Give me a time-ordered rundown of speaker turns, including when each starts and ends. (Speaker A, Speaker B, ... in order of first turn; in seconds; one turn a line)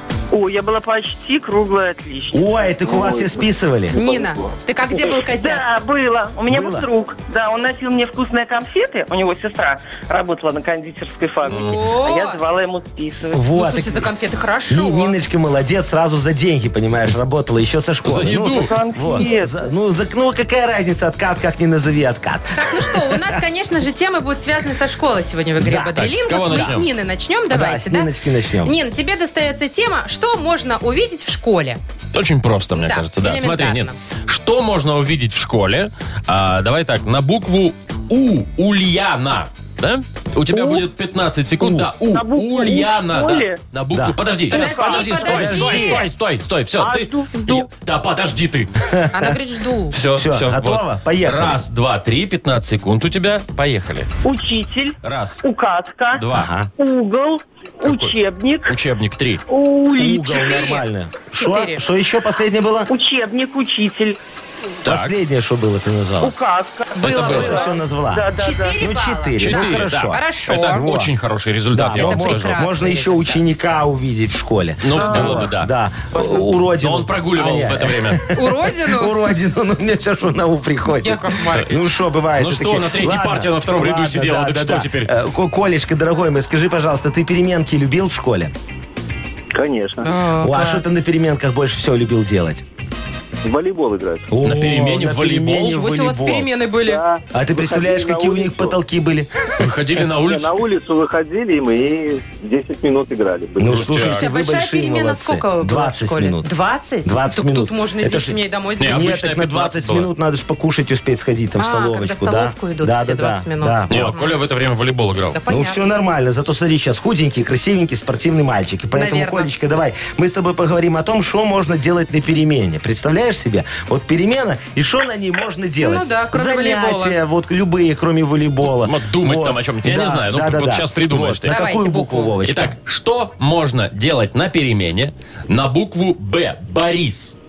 Speaker A: 0.3-3.0
Speaker B: 2.3-4.0
Speaker C: 2.9-3.4
Speaker C: 3.9-4.5
Speaker D: 3.9-5.6
Speaker A: 5.0-13.4
Speaker B: 6.5-6.9
Speaker D: 11.5-12.4
Speaker B: 13.3-14.1
Speaker D: 13.5-15.2
Speaker B: 14.7-23.4
Speaker E: 18.0-18.7
Speaker A: 18.5-19.6
Speaker D: 22.6-28.1
Speaker B: 25.6-26.8
Speaker E: 25.9-26.8
Speaker B: 27.5-28.7
Speaker D: 28.6-31.8
Speaker E: 32.1-48.8
Speaker D: 32.7-33.9
Speaker A: 40.5-40.9
Speaker B: 41.6-41.9
Speaker A: 42.1-43.6
Speaker B: 43.9-44.2
Speaker D: 44.5-46.1
Speaker A: 44.5-45.4
Speaker B: 45.1-46.0
Speaker A: 46.8-47.7
Speaker B: 48.9-49.4
Speaker D: 49.1-49.9
Speaker E: 49.9-54.1
Speaker B: 50.1-51.6
Speaker A: 54.2-56.2
Speaker E: 55.0-55.4
Speaker E: 56.1-56.5
Speaker B: 56.3-56.7
Speaker A: 56.8-58.7
Speaker E: 57.8-58.1
Speaker E: 58.7-59.4
Speaker A: 59.5-60.8
Speaker B: 60.0-62.9
Speaker D: 60.3-60.8
Speaker D: 61.4-61.8
Speaker A: 62.9-64.2
Speaker E: 64.8-65.1
Speaker B: 64.8-66.3
Speaker A: 66.2-69.0
Speaker D: 67.0-67.8
Speaker B: 67.0-71.1
Speaker E: 67.0-67.5
Speaker D: 68.3-70.8
Speaker E: 69.4-72.6
Speaker B: 71.7-88.5
Speaker D: 72.0-73.4
Speaker E: 74.8-75.7
Speaker D: 75.0-75.4
Speaker E: 76.8-78.2
Speaker D: 78.3-79.1
Speaker D: 81.0-81.7
Speaker E: 82.4-85.1
Speaker C: 89.5-90.1
Speaker D: 90.0-90.9
Speaker B: 90.4-92.6
Speaker C: 93.4-94.3
Speaker B: 94.3-96.5
Speaker E: 94.4-95.8
Speaker D: 95.7-97.0
Speaker C: 96.8-98.8
Speaker B: 97.3-99.3
Speaker E: 99.6-100.5
Speaker C: 100.2-103.8
Speaker B: 103.6-106.5
Speaker E: 103.7-104.2
Speaker D: 104.0-109.2
Speaker B: 107.0-114.1
Speaker E: 108.8-110.1
Speaker D: 111.6-114.3
Speaker E: 113.9-115.4
Speaker D: 115.3-115.8
Speaker B: 115.5-132.7
Speaker D: 118.9-119.5
Speaker D: 125.8-127.2
Speaker E: 128.7-131.6
Speaker D: 131.5-132.3
Speaker E: 132.4-137.3